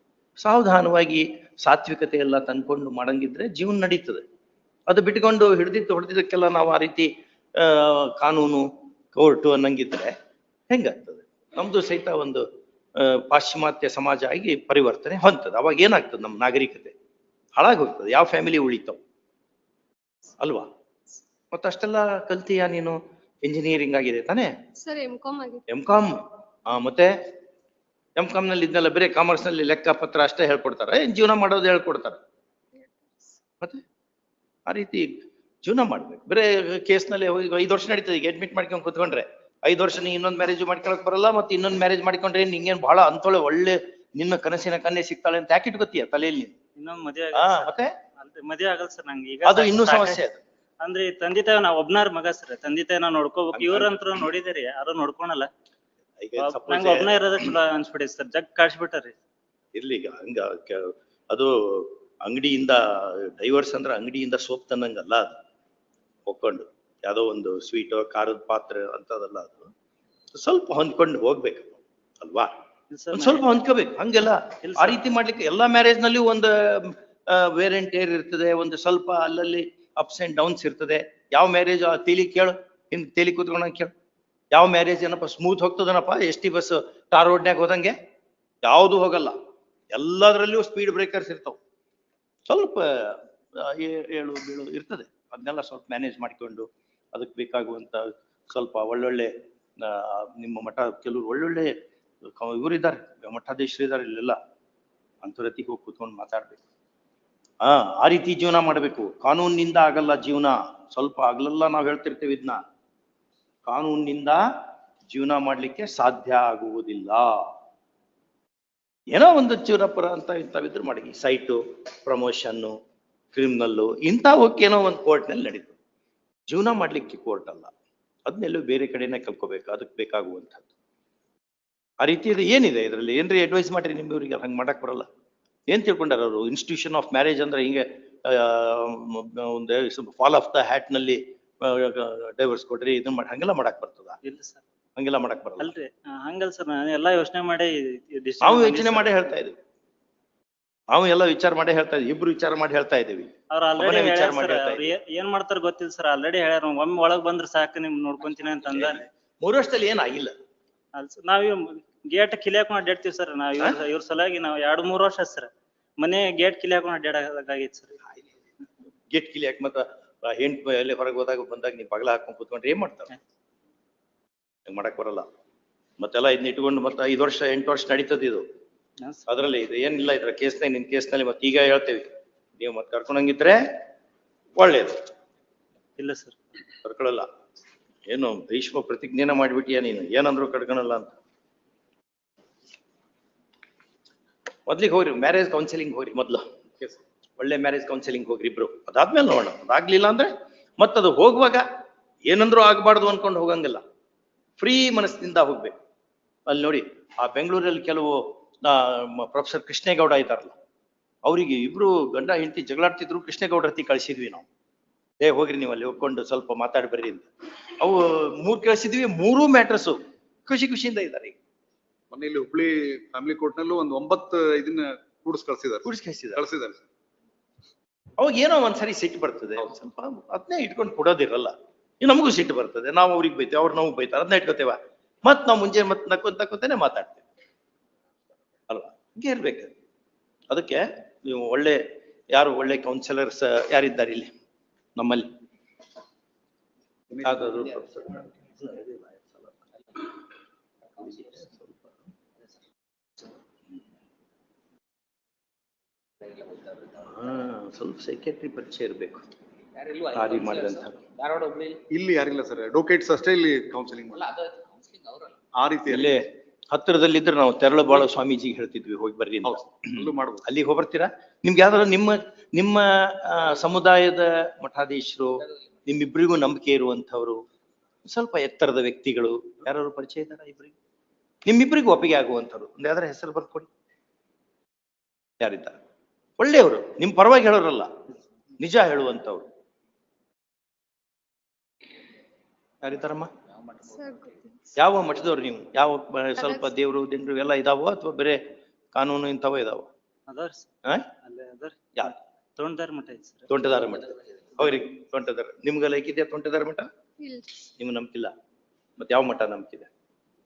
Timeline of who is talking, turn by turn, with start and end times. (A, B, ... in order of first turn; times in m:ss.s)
0:00.4-0:04.2 A
0:04.9-0:10.1 A
0:10.7-0:16.9 A
0:17.6-0:19.0 A
0:20.4-0:20.7 A
0:21.5-0:24.5 A
0:24.8-0:25.6 B
0:25.7-0:27.2 A
0:28.2-0:32.2 A
0:32.8-0:33.4 B
0:34.7-0:35.1 A
0:35.6-0:46.6 A
0:46.8-0:50.2 C
0:47.3-0:47.9 A
0:49.4-0:50.4 A
0:50.8-0:55.5 C
0:53.5-0:54.0 A
0:56.2-0:57.4 A
0:56.4-0:59.2 C
0:59.8-1:05.4 A
1:06.3-1:09.7 A
1:10.3-1:12.5 A
1:12.9-1:13.5 C
1:13.1-1:23.9 A
1:14.6-1:15.0 C
1:24.5-1:28.0 A
1:28.6-1:29.4 A
1:29.9-1:31.6 A
1:32.5-1:41.8 A
1:42.3-1:44.4 A
1:45.2-1:46.6 A
1:47.6-1:52.6 A
1:53.7-1:54.4 A
1:55.1-1:57.5 A
1:59.1-2:02.7 A
2:03.3-2:05.8 A
2:06.5-2:07.7 A
2:08.3-2:10.7 A
2:12.0-2:15.1 A
2:15.7-2:24.2 A
2:24.2-2:24.6 C
2:25.0-2:25.7 A
2:25.6-2:29.1 C
2:28.4-2:29.6 A
2:30.9-2:34.9 A
2:33.5-2:39.0 C
2:38.7-2:40.4 A
2:41.0-2:48.0 C
2:49.1-2:53.1 A
2:54.7-2:55.3 A
2:56.0-2:58.4 A
2:59.0-2:59.2 C
2:59.3-3:03.6 A
3:04.6-3:05.0 A
3:06.0-3:06.4 C
3:06.8-3:07.3 A
3:08.1-3:11.2 A
3:14.7-3:16.4 A
3:17.4-3:21.6 A
3:22.3-3:23.8 A
3:24.6-3:25.8 A
3:26.5-3:30.6 A
3:31.2-3:34.5 A
3:35.2-3:37.3 A
3:37.8-3:41.4 A
3:42.1-3:46.8 D
3:45.8-3:46.4 A
3:48.2-3:57.2 A
3:58.7-3:59.7 A
4:00.5-4:04.3 A
4:05.0-4:05.3 A
4:07.2-4:09.5 A
4:11.0-4:11.7 A
4:16.3-4:16.7 E
4:17.0-4:19.2 A
4:19.8-4:20.3 E
4:20.0-4:21.0 A
4:21.2-4:21.8 E
4:21.9-4:24.4 D
4:24.5-4:25.3 E
4:25.6-4:26.2 D
4:25.9-4:37.4 A
4:29.4-4:30.5 D
4:38.1-4:40.8 A
4:41.5-4:43.7 A
4:45.4-4:45.8 A
4:46.4-4:47.9 A
4:48.6-4:49.5 A
4:52.8-4:53.3 A
4:53.8-4:54.7 B
4:54.8-4:58.4 A
4:56.4-4:56.6 B
4:58.9-4:59.9 A
5:00.3-5:00.7 C
5:00.8-5:01.1 A
5:01.2-5:03.5 C
5:03.5-5:06.9 A
5:07.2-5:07.6 B
5:07.8-5:08.3 A
5:09.0-5:09.9 A